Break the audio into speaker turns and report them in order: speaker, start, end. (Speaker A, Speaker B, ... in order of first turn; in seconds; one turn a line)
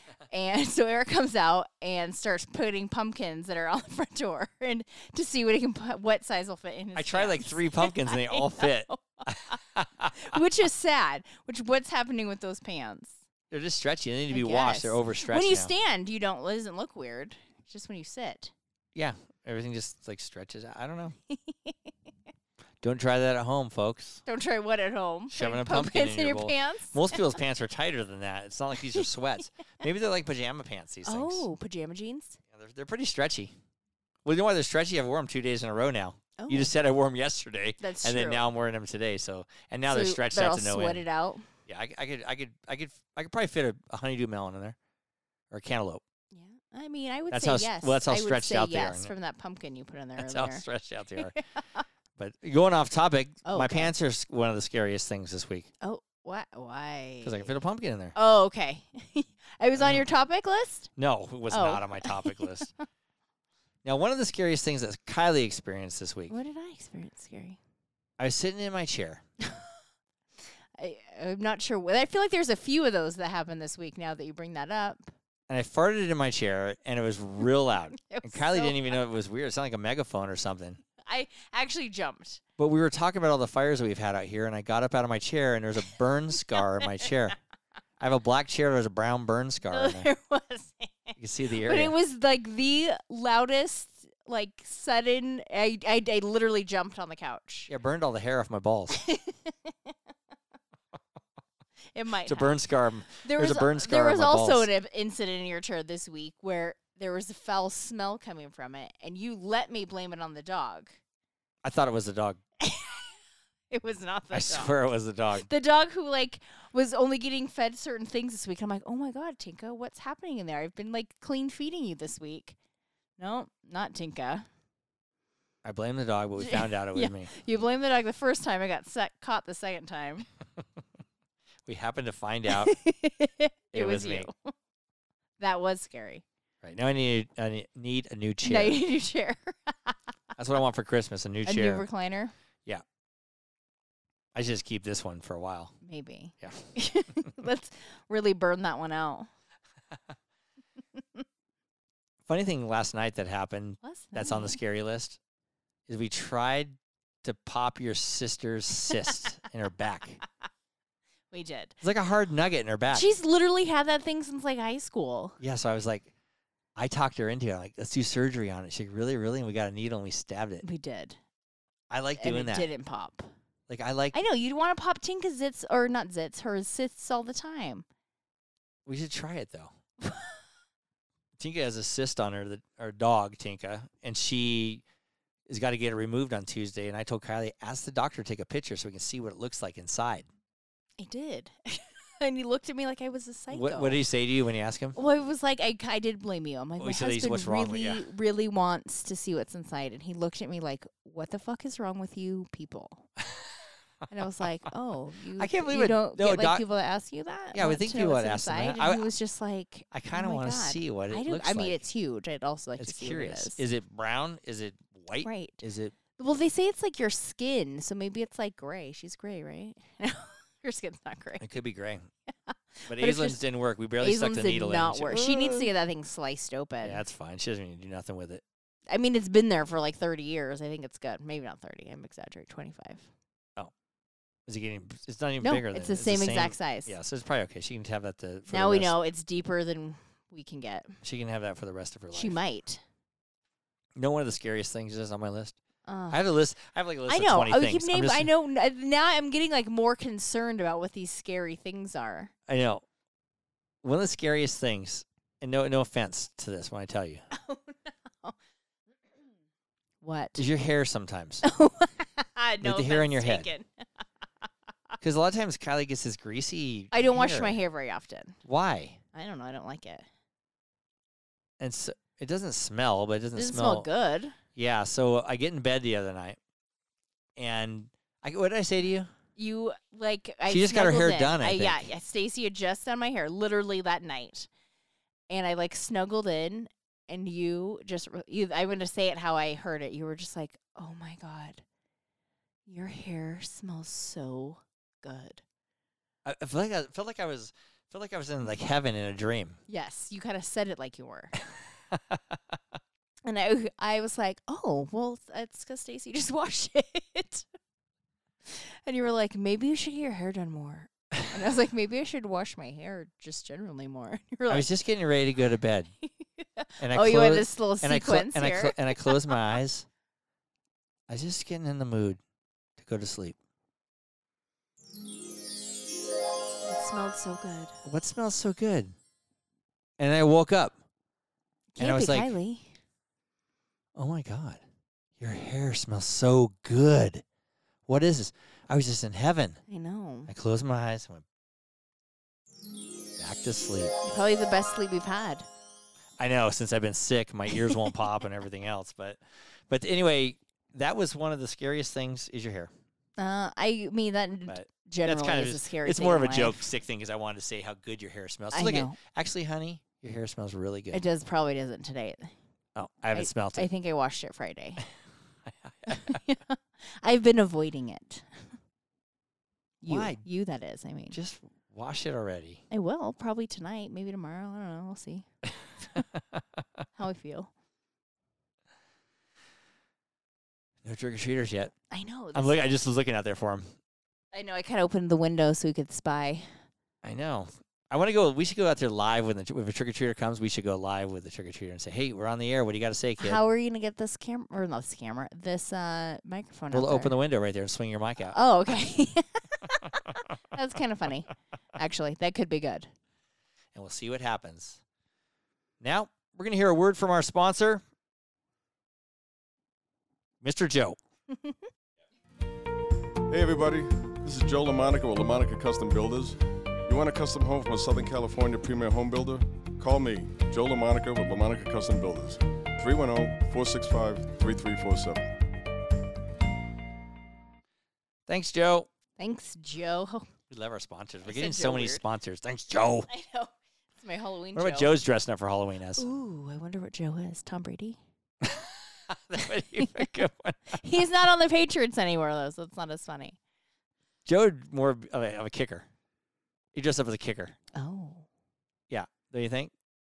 Speaker A: 0.3-9.6
Speaker B: 6.9-10.4
Speaker A: 10.1-13.2
Speaker B: 13.5-15.7
Speaker A: 14.3-18.5
Speaker B: 18.9-21.1
Speaker A: 21.3-21.9
Speaker B: 22.8-24.2
Speaker A: 24.2-27.2
Speaker B: 25.3-31.5
Speaker A: 31.0-32.4
Speaker B: 32.5-33.5
Speaker B: 34.2-41.0
Speaker A: 36.4-36.7
Speaker A: 37.8-38.4
Speaker A: 39.9-41.5
Speaker B: 41.7-44.8
Speaker B: 45.5-46.0
Speaker A: 46.3-51.8
Speaker B: 47.3-49.1
Speaker B: 50.2-51.4
Speaker B: 52.2-55.7
Speaker A: 53.4-53.9
Speaker A: 55.8-57.5
Speaker B: 57.2-58.1
Speaker A: 58.1-60.9
Speaker B: 59.8-60.0
Speaker B: 61.0-62.7
Speaker A: 61.5-62.6
Speaker B: 63.8-66.3
Speaker A: 66.3-67.6
Speaker B: 68.2-69.2
Speaker A: 69.4-69.7
Speaker A: 70.7-75.1
Speaker B: 75.5-80.8
Speaker A: 78.0-79.0
Speaker A: 81.0-82.4
Speaker B: 82.6-87.4
Speaker A: 86.5-87.1
Speaker B: 88.0-90.1
Speaker A: 89.7-97.7
Speaker B: 91.2-91.9
Speaker B: 97.7-99.0
Speaker A: 98.9-99.9
Speaker A: 101.9-102.6
Speaker B: 102.2-104.7
Speaker A: 103.2-110.9
Speaker B: 111.6-112.4
Speaker A: 112.6-113.1
Speaker A: 113.7-114.8
Speaker B: 114.3-115.5
Speaker A: 115.3-122.5
Speaker A: 123.2-124.4
Speaker B: 125.6-127.3
Speaker A: 126.4-130.2
Speaker B: 131.7-132.7
Speaker A: 132.5-134.5
Speaker B: 133.7-134.3
Speaker A: 135.4-136.2
Speaker B: 136.6-138.8
Speaker A: 138.4-140.0
Speaker B: 140.4-141.8
Speaker A: 141.4-142.3
Speaker B: 144.3-145.7
Speaker A: 145.8-149.3
Speaker B: 146.4-146.7
Speaker B: 152.3-155.2
Speaker A: 153.8-154.6
Speaker B: 155.9-160.2
Speaker A: 161.3-161.8
Speaker B: 161.8-163.1
Speaker A: 162.9-165.4
Speaker B: 165.4-166.1
Speaker B: 166.8-170.6
Speaker A: 170.6-171.2
Speaker B: 171.9-172.7
Speaker A: 172.2-173.3
Speaker B: 173.7-174.2
Speaker A: 174.1-177.8
Speaker B: 178.9-179.7
Speaker A: 180.0-180.3
Speaker B: 181.4-184.8
Speaker B: 185.5-190.3
Speaker A: 191.0-194.0
Speaker B: 193.5-195.0
Speaker A: 194.9-203.1
Speaker B: 196.8-198.0
Speaker A: 204.1-213.6
Speaker B: 205.4-206.6
Speaker B: 207.5-209.1
Speaker B: 209.9-211.8
Speaker B: 212.8-215.9
Speaker A: 215.2-215.6
Speaker A: 216.2-221.4
Speaker B: 221.4-222.1
Speaker A: 222.3-223.4
Speaker B: 222.9-225.7
Speaker A: 224.0-227.0
Speaker B: 226.8-228.4
Speaker A: 228.9-233.1
Speaker B: 234.5-238.9
Speaker A: 235.4-236.9
Speaker A: 238.5-240.9
Speaker B: 241.0-242.4
Speaker A: 242.1-242.8
Speaker B: 243.9-245.6
Speaker A: 245.8-246.2
Speaker B: 246.1-248.3
Speaker A: 247.1-252.3
Speaker B: 252.5-252.8
Speaker B: 253.8-257.2
Speaker A: 257.3-258.4
Speaker A: 260.0-260.4
Speaker B: 260.4-261.4
Speaker A: 261.4-263.9
Speaker B: 262.6-263.5
Speaker B: 265.0-267.6
Speaker A: 266.9-268.4
Speaker B: 268.4-269.0
Speaker A: 269.1-270.0
Speaker B: 271.6-273.9
Speaker A: 273.4-274.4
Speaker B: 274.5-276.4
Speaker B: 277.4-279.1
Speaker A: 279.4-284.5
Speaker B: 280.5-281.9
Speaker A: 285.3-291.6
Speaker A: 292.6-295.4
Speaker B: 296.2-299.6
Speaker A: 299.7-301.3
Speaker B: 301.9-302.2
Speaker A: 303.2-307.5
Speaker A: 308.4-314.7
Speaker B: 314.5-315.9
Speaker A: 316.2-319.4
Speaker B: 316.8-319.9
Speaker B: 321.1-322.2
Speaker B: 322.8-323.4
Speaker A: 326.6-327.8
Speaker B: 327.8-328.9
Speaker B: 330.0-330.8
Speaker A: 331.7-332.7
Speaker B: 331.8-332.3
Speaker B: 333.9-334.6
Speaker B: 335.2-337.2
Speaker B: 337.9-339.6
Speaker A: 339.7-340.3
Speaker B: 340.3-341.2
Speaker B: 343.2-343.9
Speaker A: 344.0-345.5
Speaker B: 346.2-352.7
Speaker A: 347.6-347.9
Speaker A: 353.2-356.6
Speaker B: 354.5-361.0
Speaker A: 358.5-359.0
Speaker A: 360.9-362.3
Speaker B: 362.8-363.7
Speaker A: 363.1-364.8
Speaker B: 365.6-366.2
Speaker A: 365.9-368.5
Speaker A: 369.8-371.2
Speaker B: 369.9-370.2
Speaker B: 371.1-372.6
Speaker A: 372.7-375.3
Speaker B: 375.9-376.4
Speaker A: 376.9-377.5
Speaker B: 380.8-381.7
Speaker A: 381.9-382.7
Speaker B: 382.3-383.7
Speaker A: 384.3-386.5
Speaker B: 387.0-393.4
Speaker A: 393.2-397.1
Speaker B: 396.7-398.4
Speaker A: 398.3-402.9
Speaker B: 403.7-404.8
Speaker B: 405.8-407.8
Speaker B: 410.4-411.0
Speaker A: 411.3-411.6
Speaker C: 413.3-425.3
Speaker B: 428.3-428.9
Speaker A: 429.2-430.3
Speaker B: 430.5-433.1
Speaker A: 431.2-432.0
Speaker A: 433.1-434.9
Speaker B: 434.5-436.1
Speaker A: 435.9-438.0
Speaker B: 438.4-440.8
Speaker A: 439.8-440.1
Speaker A: 440.7-443.4
Speaker B: 444.2-445.9
Speaker B: 446.7-447.6
Speaker A: 447.7-448.3
Speaker B: 448.9-449.7